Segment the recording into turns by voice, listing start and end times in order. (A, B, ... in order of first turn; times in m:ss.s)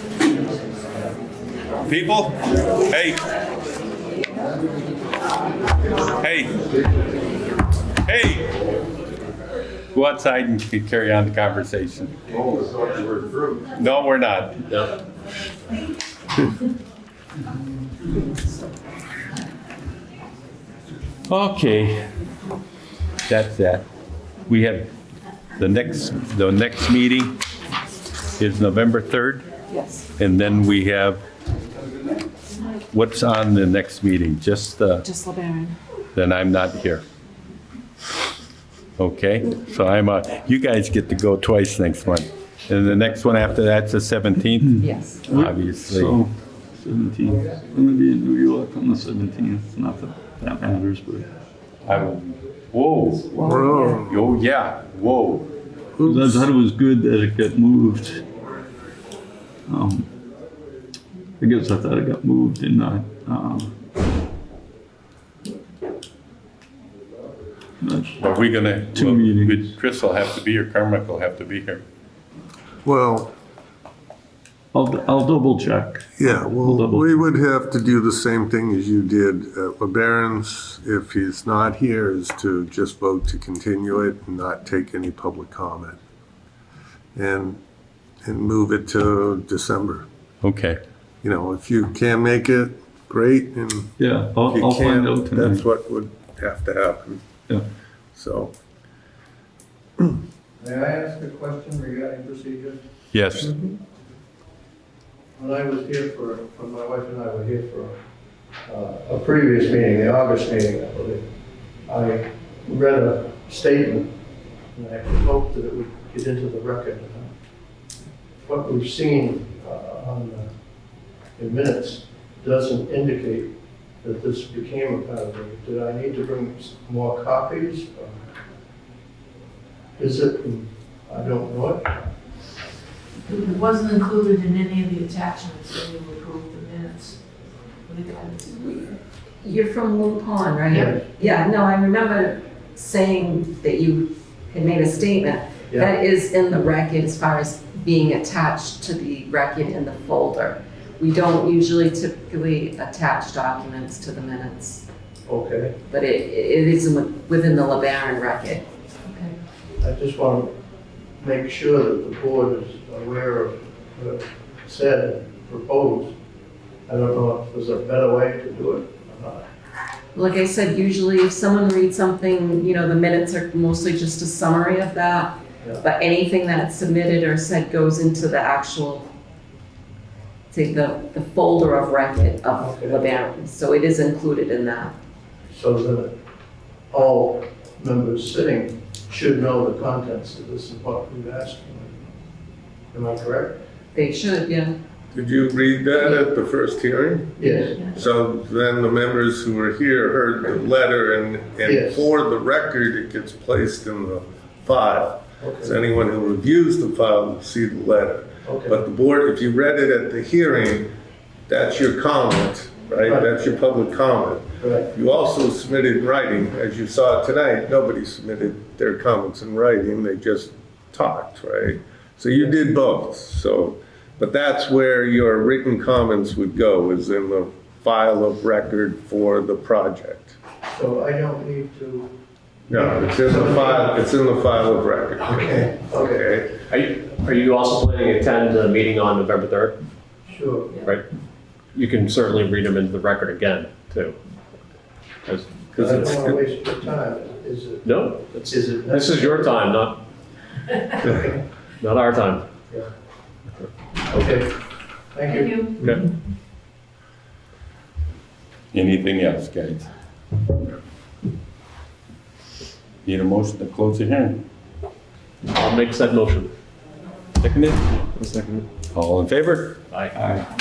0:01.8-0:03.2 A
0:06.2-0:06.6 A
0:08.0-0:08.7 A
0:09.9-0:12.2 A
0:12.3-0:13.5 B
0:13.7-0:14.8 A
0:21.3-0:22.1 A
0:23.3-0:23.9 A
0:24.5-0:24.9 A
0:25.6-0:27.4 A
0:28.4-0:29.4 A
0:29.7-0:30.1 C
0:30.2-0:31.2 A
0:32.9-0:35.1 A
0:35.0-0:35.7 C
0:36.1-0:37.0 A
0:39.0-0:46.2 A
0:44.7-0:51.3 D
0:44.8-0:45.2 C
0:51.8-0:53.4 A
0:53.4-0:54.0 C
0:53.4-0:54.2 B
0:54.0-0:55.5 A
0:56.0-0:56.4 B
0:56.0-0:58.2 D
0:59.7-1:00.1 D
1:01.4-1:03.7 D
1:07.8-1:08.2 D
1:08.2-1:11.8 A
1:08.9-1:09.7 D
1:12.8-1:13.3 B
1:14.7-1:17.2 D
1:16.2-1:26.0 B
1:27.2-1:27.6 B
1:28.2-1:30.1 B
1:30.4-1:30.8 A
1:31.2-1:33.9 B
1:34.0-1:35.6 D
1:34.5-1:37.2 B
1:38.2-1:38.5 B
1:40.6-1:42.8 E
1:43.1-1:43.6 A
1:45.4-1:47.9 E
1:48.6-1:51.2 E
1:51.9-1:54.1 E
1:54.7-1:57.3 E
1:58.4-2:00.5 E
2:01.4-2:08.1 E
2:10.0-2:12.0 E
2:13.3-2:17.2 F
2:17.8-2:18.5 F
2:18.5-2:34.8 C
2:20.7-2:21.1 E
2:35.3-2:35.8 E
2:35.9-2:38.6 C
2:39.8-2:40.5 E
2:41.2-2:46.1 E
2:46.9-2:49.5 E
2:50.1-2:59.1 C
3:00.5-3:04.9 C
3:02.6-3:03.0 E
3:05.5-3:06.1 E
3:06.9-3:12.1 E
3:12.9-3:13.6 E
3:13.9-3:14.7 C
3:15.1-3:30.9 B
3:17.4-3:17.9 E
3:21.6-3:22.1 E
3:25.4-3:25.8 E
3:28.4-3:28.8 E
3:31.5-3:50.4 B
3:33.0-3:33.3 E
3:34.6-3:34.9 E
3:50.7-3:52.1 E
3:52.7-3:56.6 B
3:52.7-3:54.0 E
3:55.2-3:56.3 E
3:56.7-3:59.8 G
4:00.2-4:00.8 E
4:01.7-4:04.2 G
4:05.2-4:06.4 G
4:05.8-4:09.6 E
4:07.8-4:10.0 G
4:11.0-4:11.4 E
4:11.8-4:12.4 G
4:14.1-4:16.0 E
4:15.8-4:16.0 G
4:18.7-4:19.9 A
4:23.0-4:24.4 A
4:25.4-4:26.5 G
4:27.4-4:28.0 A
4:28.2-4:28.6 G
4:28.9-4:29.9 A
4:29.9-4:30.2 G
4:30.1-4:30.5 D